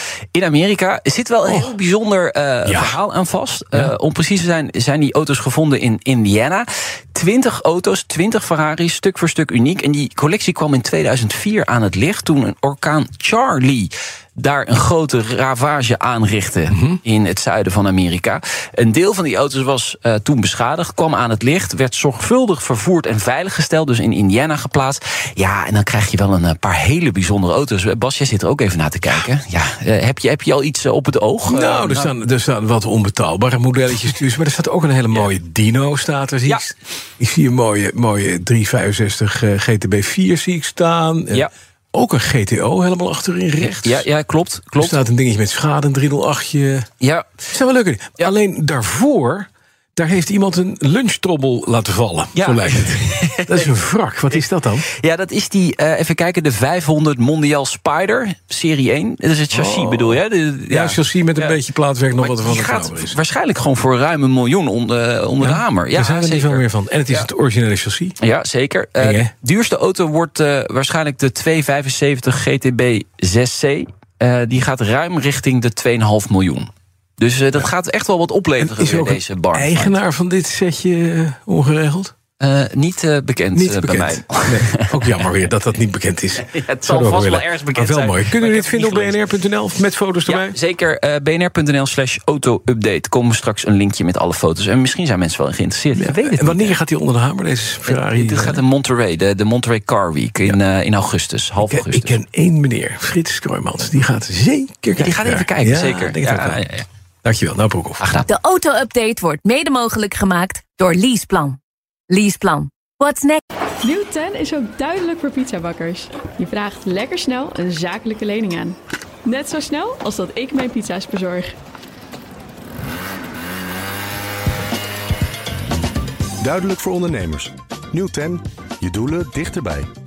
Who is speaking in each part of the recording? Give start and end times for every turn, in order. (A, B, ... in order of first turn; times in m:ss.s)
0:00.3-0:32.1 A
0:01.4-0:01.8 B
0:02.7-0:03.0 B
0:16.7-0:17.0 B
0:31.5-0:44.1 B
0:43.6-0:45.0 A
0:44.8-0:46.9 B
0:47.0-0:47.4 A
0:47.5-0:54.9 B
0:52.4-0:53.7 A
0:54.3-1:01.6 A
0:59.5-1:03.2 B
1:02.2-1:07.3 A
1:05.4-1:08.1 B
1:08.2-1:20.0 A
1:09.0-1:09.3 B
1:18.6-1:22.1 B
1:22.4-1:25.2 A
1:23.6-1:30.6 B
1:26.4-1:29.2 A
1:30.2-1:36.8 A
1:35.9-1:38.6 B
1:37.9-1:42.2 A
1:41.6-1:46.7 B
1:45.0-1:46.9 A
1:47.2-1:48.0 B
1:48.0-1:48.3 A
1:48.3-1:51.6 C
1:52.1-1:53.4 C
1:53.8-2:01.6 D
2:06.4-2:09.9 E